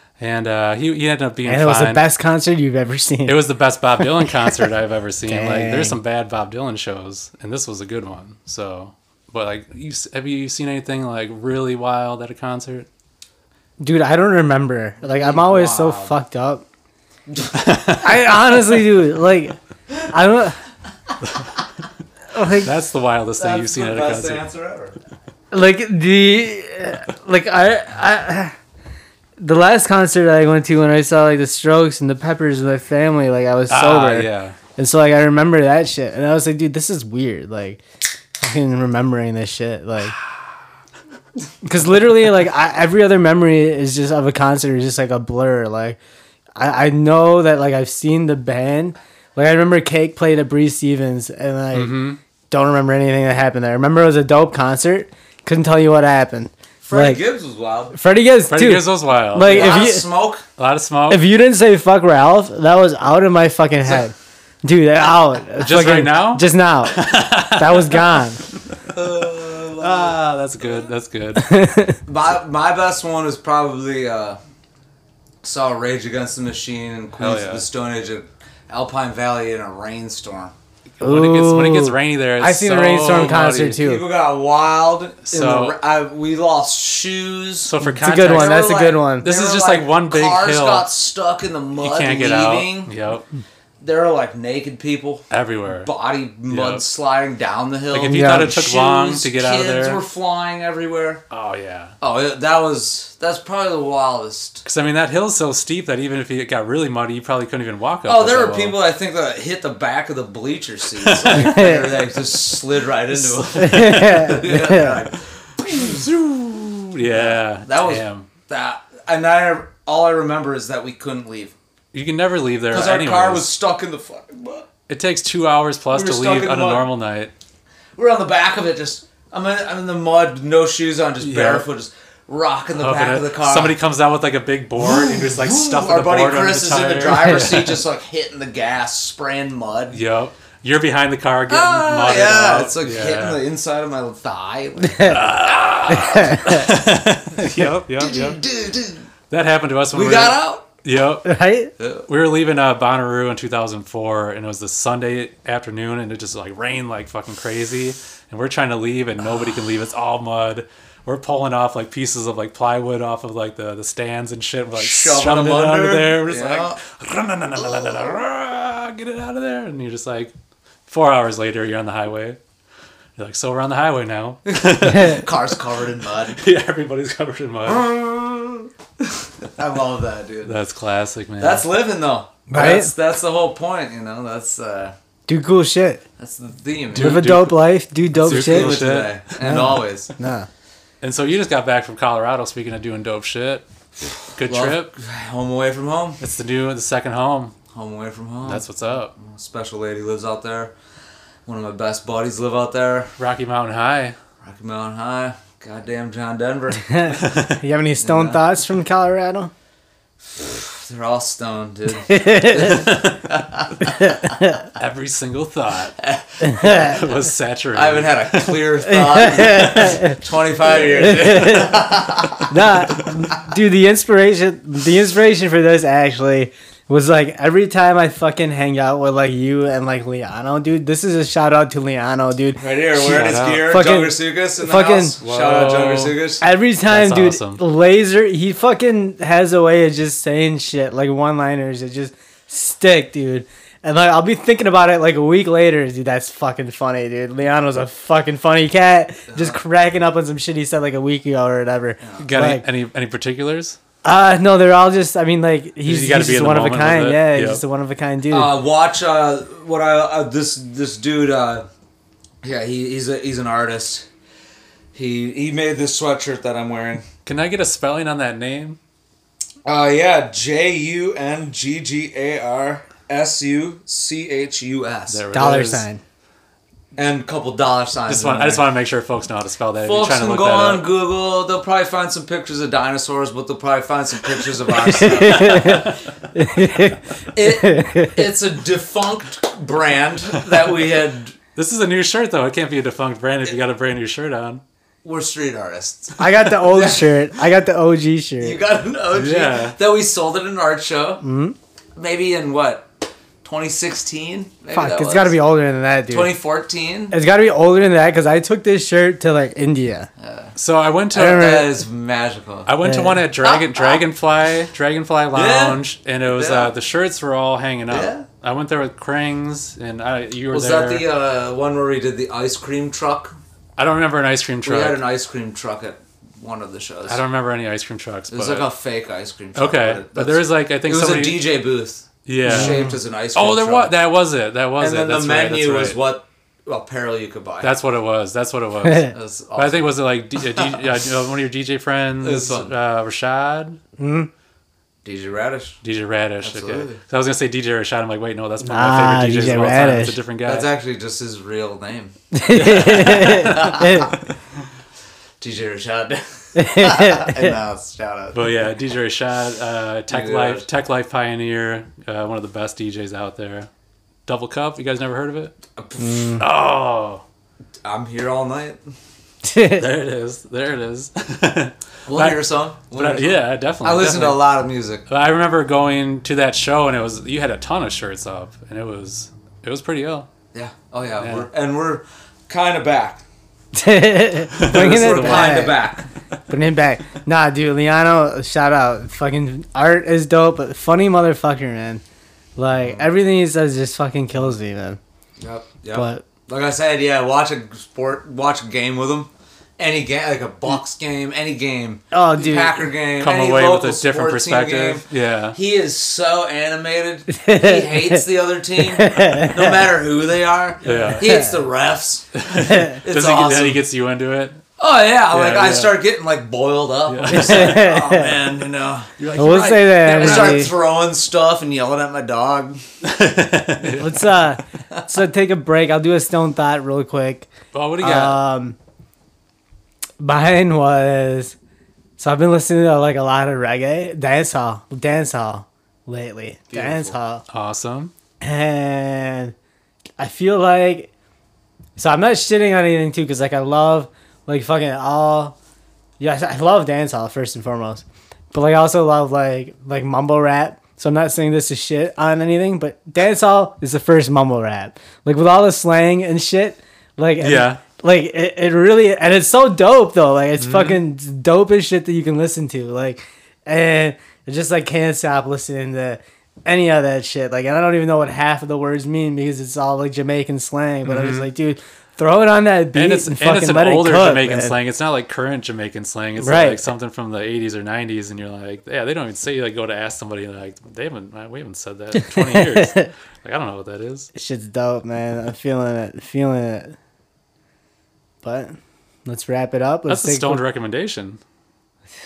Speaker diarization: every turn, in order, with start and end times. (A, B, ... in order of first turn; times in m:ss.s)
0:00.2-0:02.0 A
0:01.4-0:03.4 B
0:03.2-0:12.9 A
0:04.0-0:04.7 B
0:05.3-0:06.0 B
0:13.8-0:16.6 B
0:15.0-0:16.2 C
0:17.3-0:17.6 C
0:17.5-0:18.3 A
0:18.0-0:19.5 B
0:20.1-0:20.6 B
0:22.3-0:22.7 B
0:22.4-0:24.4 A
0:23.4-0:25.0 C
0:25.5-0:28.5 B
0:29.4-0:37.8 B
0:33.7-0:34.6 A
0:38.4-0:40.2 B
0:41.6-0:46.0 B
0:46.6-0:52.0 B
0:51.7-0:52.2 A
0:52.5-0:57.2 B
0:56.8-0:57.9 C
0:57.9-1:00.0 B
0:58.5-0:59.8 A
0:59.4-1:00.4 C
1:00.6-1:01.2 A
1:01.1-1:07.0 B
1:05.6-1:08.2 A
1:07.6-1:08.4 B
1:08.9-1:10.7 C
1:09.8-1:11.5 A
1:11.4-1:12.0 B
1:12.1-1:14.4 C
1:15.4-1:20.5 C
1:17.2-1:17.7 A
1:21.0-1:23.8 A
1:21.0-1:24.0 B
1:23.8-1:32.9 C
1:25.2-1:25.8 A
1:27.6-1:28.7 A
1:27.8-1:29.3 B
1:29.2-1:30.9 A
1:31.8-1:33.2 A
1:33.8-1:41.2 C
1:35.3-1:35.9 A
1:36.5-1:36.8 A
1:37.9-1:40.0 A
1:38.1-1:38.6 B
1:41.3-1:42.0 A
1:42.0-1:44.6 C
1:44.6-1:48.8 A
1:48.0-1:56.2 C
1:51.0-1:51.8 A
1:51.4-1:51.8 B
1:53.1-1:54.2 A
1:53.6-1:54.9 B
1:55.7-1:58.3 A
1:57.0-2:01.5 C
2:01.9-2:03.5 A
2:02.7-2:04.7 C
2:04.9-2:07.3 A
2:05.9-2:06.9 C
2:08.0-2:13.8 C
2:11.2-2:11.7 A
2:12.7-2:17.8 A
2:14.8-2:20.0 C
2:19.9-2:23.4 A
2:21.5-2:26.6 C
2:24.8-2:25.2 B
2:25.0-2:28.4 A
2:25.9-2:26.7 B
2:27.6-2:29.1 C
2:29.3-2:31.4 A
2:29.9-2:30.7 C
2:31.2-2:31.7 B
2:31.8-2:32.1 C
2:32.1-2:50.3 A
2:44.7-2:46.8 C
2:47.8-2:48.1 C
2:50.9-2:52.4 A
2:53.2-2:55.4 A
2:54.5-2:56.4 C
2:56.4-2:57.9 A
2:57.6-3:00.6 C
3:00.4-3:01.7 A
3:01.4-3:04.9 C
3:02.5-3:02.9 B
3:05.3-3:06.0 B
3:06.2-3:07.3 C
3:06.9-3:07.6 A
3:06.9-3:08.8 B
3:08.1-3:09.4 A
3:08.2-3:10.1 C
3:09.4-3:10.5 B
3:11.0-3:13.6 A
3:14.3-3:14.9 A
3:14.4-3:16.2 C
3:16.2-3:17.5 A
3:17.7-3:20.7 C
3:18.4-3:19.1 A
3:21.4-3:23.1 C
3:23.2-3:24.2 A
3:24.4-3:27.2 C
3:26.9-3:29.5 B
3:27.2-3:27.6 A
3:28.0-3:28.4 C
3:30.3-3:33.9 C
3:32.0-3:32.9 B
3:33.8-3:34.6 B
3:34.8-3:36.0 A
3:36.0-3:36.8 C
3:36.4-3:37.0 B
3:36.6-3:38.7 A
3:37.7-3:43.0 C
3:38.9-3:40.2 B
3:40.7-3:52.6 B
3:52.6-3:56.4 C
3:53.0-3:53.8 A
3:53.5-3:55.1 B
3:55.2-3:56.2 A
3:56.4-4:12.6 B
3:56.9-3:57.6 A
4:09.3-4:09.6 C
4:12.0-4:12.3 C
4:12.2-4:13.8 A
4:14.0-4:18.5 B
4:15.8-4:17.6 A
4:18.3-4:21.7 C
4:22.4-4:24.1 C
4:24.9-4:27.1 C
4:27.2-4:28.8 A
4:29.6-4:35.2 C
4:35.1-4:35.8 A
4:35.3-4:36.0 B
4:36.9-4:38.6 C
4:38.1-4:40.8 A
4:39.8-4:46.0 C
4:44.8-4:48.2 B
4:47.3-4:51.4 C
4:51.5-4:54.6 A
4:55.0-4:57.3 C
4:56.2-4:58.6 B
4:58.4-5:01.2 C
4:59.1-4:59.8 A
5:01.2-5:01.6 B
5:02.0-5:02.9 C
5:03.4-5:05.3 C
5:04.7-5:06.3 B
5:06.1-5:07.2 C
5:07.1-5:10.1 B
5:10.2-5:10.5 C
5:10.6-5:11.5 A
5:11.1-5:11.8 B
5:11.1-5:12.7 C
5:12.6-5:21.0 A
5:12.8-5:13.2 B
5:13.4-5:14.0 C
5:15.3-5:16.7 C
5:17.9-5:18.2 C
5:20.5-5:23.4 C
5:23.8-5:25.0 A
5:24.6-5:27.2 C
5:27.1-5:28.7 A
5:28.3-5:33.9 C
5:29.5-5:31.5 A
5:32.2-5:36.0 A
5:32.4-5:32.9 B
5:34.8-5:37.8 C
5:37.6-5:43.8 A
5:39.0-5:41.0 C
5:42.2-5:42.7 C
5:44.0-5:44.3 B
5:45.0-5:45.8 C
5:45.8-5:50.7 A
5:46.4-5:47.0 C
5:48.6-5:50.2 B
5:50.4-5:54.2 C
5:52.3-5:54.1 B
5:52.5-5:53.6 A
5:55.4-5:58.5 C
5:56.6-5:57.6 B
5:58.3-6:03.7 A
6:00.1-6:00.7 C
6:04.2-6:05.6 A
6:05.7-6:06.3 C
6:06.0-6:06.4 B
6:06.4-6:07.2 A
6:07.8-6:08.8 C
6:09.4-6:09.8 B
6:09.7-6:14.5 A
6:12.0-6:15.0 C
6:15.1-6:20.3 A
6:20.5-6:23.2 C
6:21.2-6:21.5 A
6:23.7-6:25.7 B
6:24.5-6:25.7 A
6:24.6-6:26.1 C
6:26.5-6:32.0 B
6:32.6-6:35.0 B
6:32.8-6:33.1 C
6:35.4-6:52.4 C
6:35.9-6:36.2 B
6:42.1-6:42.8 B
6:43.2-6:45.6 A
6:47.3-6:48.2 B
6:48.8-6:49.9 B
6:50.8-6:51.4 A
6:50.9-6:51.5 B
6:52.4-6:54.6 A
6:52.6-6:52.9 B
6:52.9-6:53.8 C
6:54.8-6:59.1 C
6:55.3-6:56.0 A
6:57.1-6:57.9 A
6:57.3-6:58.3 B
6:59.2-7:00.7 A
6:59.3-7:00.7 B
7:00.0-7:02.8 C
7:03.0-7:04.3 A
7:04.0-7:08.8 B
7:07.7-7:08.4 A
7:10.2-7:11.5 B
7:12.2-7:17.4 B
7:16.7-7:17.2 C
7:17.5-7:18.1 A
7:18.4-7:19.5 B
7:20.2-7:21.1 B
7:22.0-7:25.5 B
7:26.2-7:54.8 B
7:37.4-7:37.8 A
7:40.6-7:41.0 A
7:51.0-7:51.5 A
7:52.9-8:04.3 A
7:56.4-7:56.8 B
8:02.2-8:03.1 B
8:04.3-8:07.0 B
8:08.4-8:10.6 B
8:10.1-8:11.4 A